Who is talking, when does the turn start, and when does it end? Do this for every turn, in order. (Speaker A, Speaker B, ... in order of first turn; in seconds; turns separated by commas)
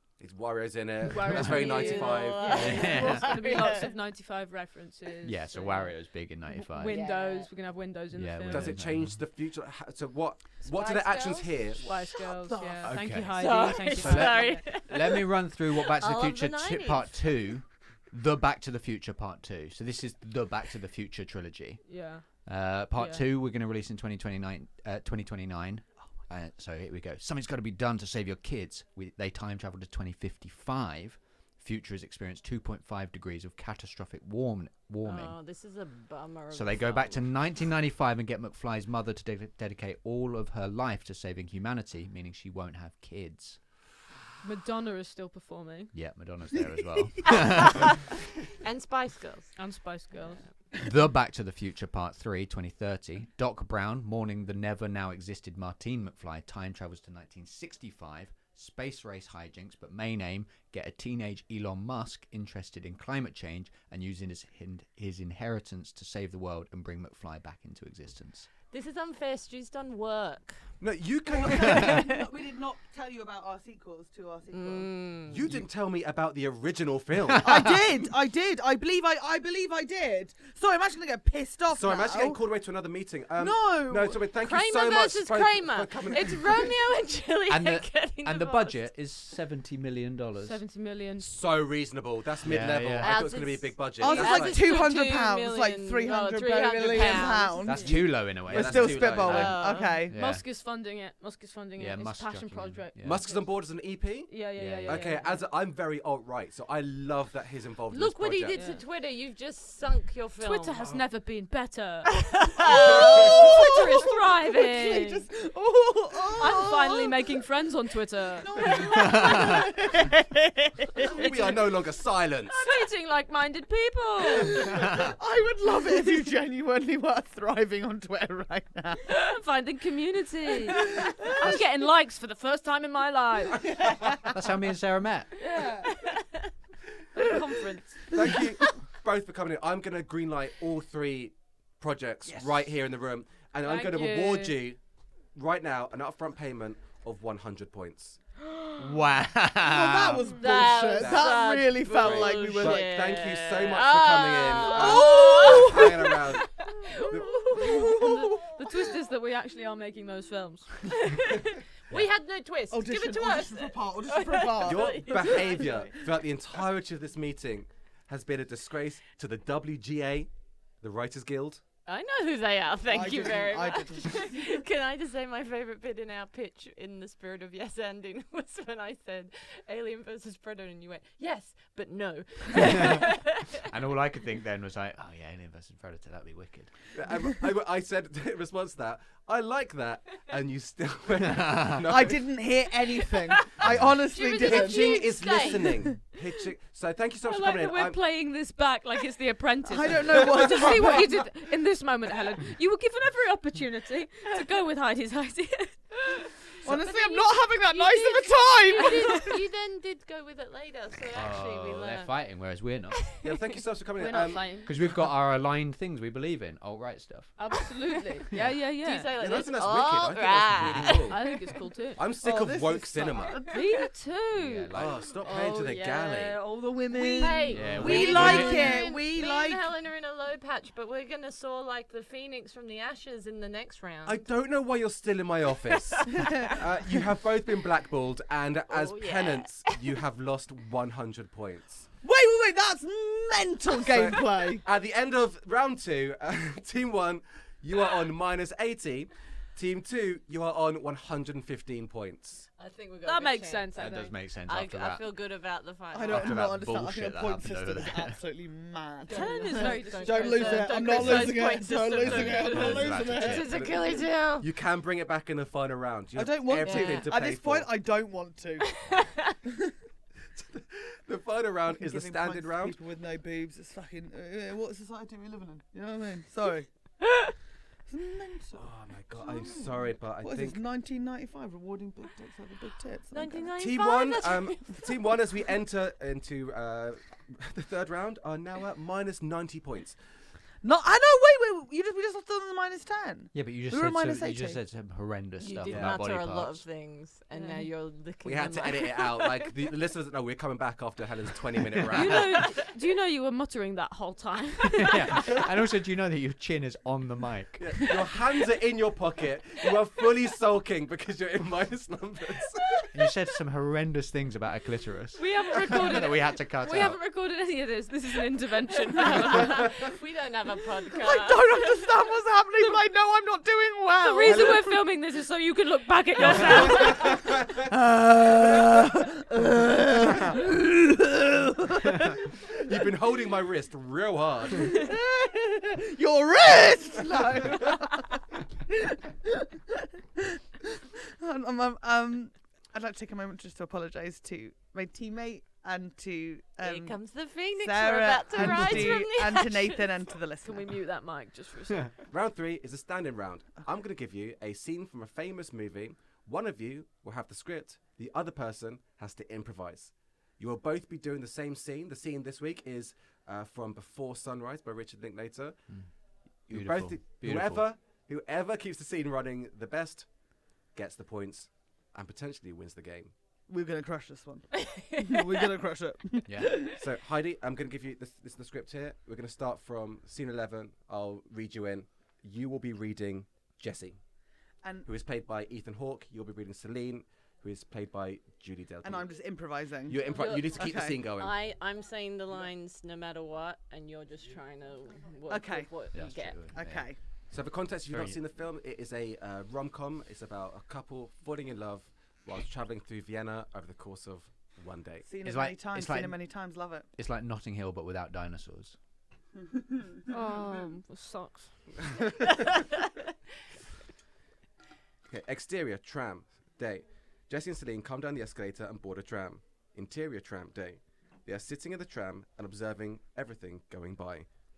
Speaker A: 0.2-2.7, Speaker B: 1.1-8.8, Speaker C: 1.2-1.6, Speaker D: 1.4-3.9, Speaker C: 2.5-3.5, Speaker C: 5.2-7.1, Speaker D: 6.8-7.5, Speaker C: 8.1-9.2, Speaker A: 8.5-12.1, Speaker D: 10.7-11.7, Speaker B: 11.8-14.7, Speaker E: 12.2-12.9, Speaker C: 12.8-35.4, Speaker D: 13.4-17.5, Speaker B: 21.9-22.3, Speaker B: 22.9-23.2, Speaker D: 35.0-37.2, Speaker C: 36.5-43.6, Speaker B: 44.4-45.9, Speaker C: 45.9-48.0, Speaker D: 48.5-49.6, Speaker B: 49.6-50.4, Speaker C: 50.7-68.5, Speaker D: 68.7-70.7, Speaker A: 70.8-72.1, Speaker E: 71.3-74.9, Speaker D: 71.5-71.9, Speaker D: 74.5-75.4, Speaker A: 75.3-77.5, Speaker C: 77.3-77.7, Speaker E: 77.4-82.4, Speaker A: 81.7-86.7, Speaker E: 83.4-84.2, Speaker D: 84.4-88.8, Speaker C: 87.5-90.6, Speaker B: 90.4-91.3, Speaker A: 91.2-94.6, Speaker C: 92.4-93.4, Speaker D: 93.0-97.9, Speaker E: 94.0-100.1, Speaker C: 97.6-100.5, Speaker A: 97.7-99.5, Speaker D: 99.1-100.0, Speaker B: 100.1-103.5, Speaker C: 101.8-103.2, Speaker A: 103.0-108.6, Speaker B: 104.3-105.4, Speaker C: 104.5-105.2, Speaker D: 107.9-110.9, Speaker B: 108.5-108.8, Speaker B: 110.4-115.3, Speaker D: 112.3-113.7, Speaker E: 112.6-117.4, Speaker B: 116.4-118.8, Speaker E: 118.4-121.3, Speaker C: 119.0-119.7, Speaker A: 121.0-122.7, Speaker B: 121.1-121.4, Speaker B: 122.5-124.8, Speaker E: 124.3-129.1, Speaker C: 124.7-125.1, Speaker B: 129.1-133.7, Speaker E: 130.8-131.3, Speaker C: 134.1-135.3, Speaker B: 135.4-136.0, Speaker D: 135.9-136.3, Speaker B: 137.1-138.0, Speaker A: 138.1-144.8, Speaker C: 142.3-142.6, Speaker B: 143.6-144.6, Speaker A: 145.3-148.2, Speaker C: 148.8-150.4, Speaker E: 149.6-153.1, Speaker D: 150.2-158.3, Speaker A: 150.9-151.3, Speaker A: 151.9-157.4, Speaker E: 154.6-156.2, Speaker E: 157.0-158.8, Speaker B: 157.5-161.4, Speaker D: 161.0-165.8, Speaker E: 162.7-165.9, Speaker A: 164.6-170.3, Speaker A: 170.8-171.6, Speaker D: 171.9-183.6, Speaker E: 172.9-174.6, Speaker C: 182.6-183.1, Speaker C: 183.6-186.7, Speaker A: 186.9-192.2, Speaker C: 191.2-191.9, Speaker E: 191.8-195.9, Speaker D: 193.2-195.8, Speaker C: 193.6-193.9, Speaker A: 194.3-198.0, Speaker B: 197.2-205.9, Speaker E: 199.6-201.3, Speaker D: 206.6-212.2, Speaker E: 206.6-209.4, Speaker B: 208.8-209.2, Speaker C: 211.1-213.2, Speaker D: 212.9-213.5, Speaker A: 213.2-214.6, Speaker B: 214.0-214.7, Speaker C: 214.6-217.4, Speaker B: 217.4-219.1, Speaker C: 218.3-218.6, Speaker D: 218.8-221.4, Speaker A: 219.2-221.2, Speaker C: 220.6-220.9, Speaker B: 221.0-222.0, Speaker A: 221.9-223.4, Speaker E: 222.2-223.6, Speaker B: 223.5-228.4, Speaker C: 224.3-225.0, Speaker A: 224.7-226.4, Speaker D: 225.2-226.2, Speaker E: 226.7-229.7, Speaker D: 227.2-234.2, Speaker C: 227.5-228.8, Speaker A: 227.7-228.5, Speaker A: 234.0-241.9, Speaker D: 235.7-236.0, Speaker E: 236.2-236.5, Speaker D: 238.7-239.9, Speaker E: 242.0-244.6, Speaker A: 243.9-252.5, Speaker D: 252.6-253.8, Speaker B: 253.0-254.1, Speaker C: 253.7-255.1, Speaker D: 254.5-256.5, Speaker E: 255.9-263.5, Speaker C: 256.0-258.2, Speaker D: 259.1-264.5, Speaker B: 259.1-261.1, Speaker C: 260.9-261.4, Speaker C: 261.9-263.6, Speaker A: 263.4-267.7, Speaker E: 266.1-268.8, Speaker D: 266.6-267.1, Speaker D: 268.8-269.3, Speaker E: 269.4-269.7, Speaker A: 270.3-272.8, Speaker E: 271.7-276.7, Speaker E: 277.9-283.5, Speaker A: 278.6-280.6, Speaker D: 283.1-285.2, Speaker A: 283.6-290.0, Speaker E: 290.6-294.6, Speaker C: 293.3-296.6, Speaker D: 295.4-299.7, Speaker A: 295.6-296.0, Speaker B: 297.3-297.7, Speaker A: 298.2-302.3, Speaker B: 301.9-305.4, Speaker C: 302.0-302.2, Speaker C: 304.7-307.9, Speaker A: 307.6-312.9, Speaker C: 312.9-317.0, Speaker B: 315.1-319.7, Speaker D: 319.0-322.0, Speaker E: 321.0-324.7, Speaker B: 324.0-327.2, Speaker E: 326.6-332.4, Speaker A: 327.1-327.6, Speaker A: 332.5-334.9, Speaker E: 334.6-347.0, Speaker D: 346.6-349.9, Speaker E: 347.5-350.7, Speaker C: 348.4-348.8, Speaker B: 350.4-351.9, Speaker A: 352.1-365.6, Speaker A: 366.5-373.1, Speaker C: 366.5-367.7, Speaker E: 373.5-376.7, Speaker D: 374.7-375.1, Speaker C: 376.2-376.7, Speaker A: 376.6-384.0, Speaker A: 384.9-389.1, Speaker E: 388.8-391.0, Speaker A: 389.9-391.3, Speaker D: 390.1-396.4, Speaker E: 395.3-395.7, Speaker C: 395.9-396.9, Speaker E: 396.5-397.0, Speaker A: 397.3-405.1, Speaker C: 397.9-398.2, Speaker E: 405.1-406.9, Speaker C: 405.2-406.3, Speaker C: 407.0-408.8, Speaker B: 410.1-411.7, Speaker A: 415.1-424.3